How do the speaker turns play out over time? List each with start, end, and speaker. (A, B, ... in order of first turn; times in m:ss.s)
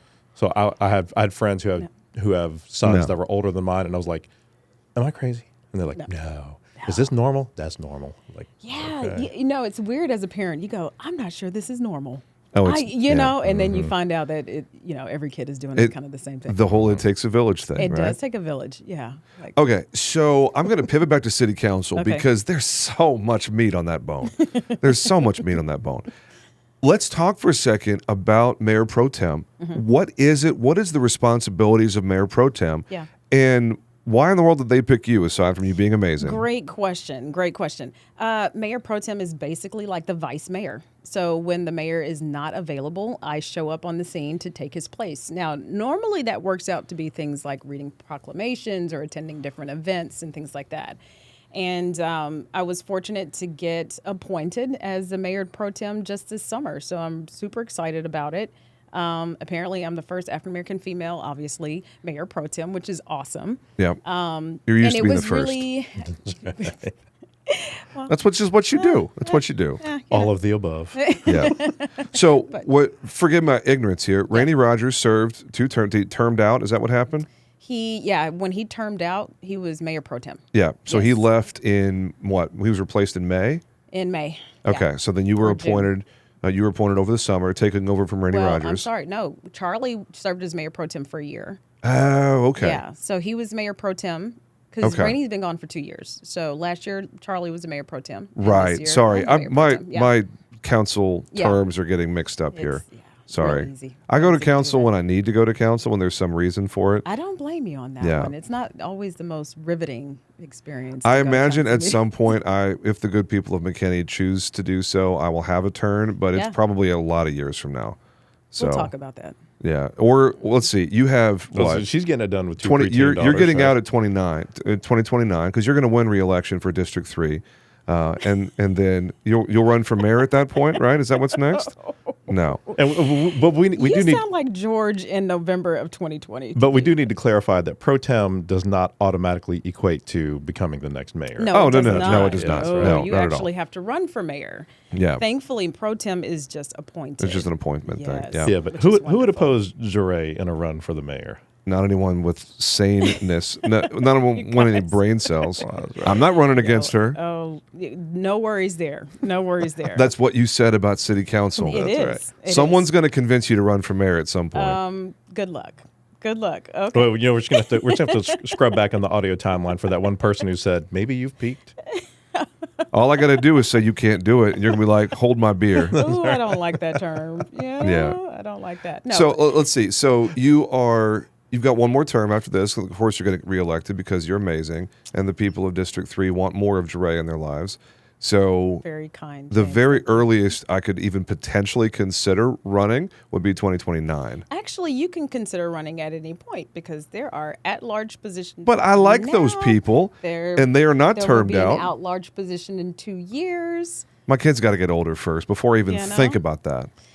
0:00.4-0:04.3 A
0:02.8-0:03.1 B
0:05.0-0:09.3 A
0:06.8-0:07.1 C
0:08.6-0:16.8 C
0:12.5-0:13.9 B
0:16.5-0:18.2 B
0:16.7-0:17.0 A
0:17.8-0:19.6 C
0:19.6-0:26.1 B
0:22.0-0:22.3 C
0:24.4-0:25.4 C
0:26.8-0:36.4 B
0:36.2-0:51.0 C
0:51.5-1:06.9 C
1:04.7-1:05.6 B
1:06.3-1:06.9 A
1:07.5-1:08.1 C
1:08.1-1:09.8 B
1:08.8-1:10.4 C
1:10.1-1:11.0 A
1:11.0-1:12.7 C
1:11.2-1:17.3 B
1:17.6-1:21.2 C
1:20.5-1:23.6 B
1:23.9-1:25.9 C
1:24.6-1:28.9 B
1:28.3-1:31.6 C
1:31.8-1:32.8 B
1:32.6-1:40.2 C
1:34.8-1:35.2 B
1:38.4-1:47.1 B
1:41.3-1:41.6 C
1:42.5-1:44.9 C
1:47.0-1:52.4 C
1:48.0-1:48.3 B
1:51.0-1:58.0 B
1:58.5-1:58.9 B
1:58.6-1:59.4 C
1:59.6-2:01.8 B
2:01.5-2:03.8 A
2:02.6-2:11.7 B
2:11.3-2:13.0 C
2:12.3-2:12.6 B
2:12.8-2:14.2 A
2:13.8-2:17.1 C
2:16.6-2:23.1 A
2:21.4-2:29.6 C
2:21.5-2:23.5 B
2:24.9-2:25.2 B
2:27.2-2:28.5 B
2:28.5-2:31.4 A
2:31.7-2:37.2 B
2:33.0-2:40.1 C
2:35.6-2:36.3 A
2:39.9-2:44.8 B
2:41.6-2:42.9 C
2:44.5-2:48.8 C
2:46.9-2:51.8 A
2:51.9-2:52.8 C
2:52.9-2:56.0 B
2:55.8-2:57.4 A
2:55.9-2:59.6 C
2:57.8-2:58.2 B
2:59.1-3:08.8 B
3:08.8-3:10.5 C
3:09.5-3:14.4 B
3:14.5-3:24.1 C
3:18.6-3:21.9 B
3:24.3-3:26.9 B
3:25.9-3:26.4 C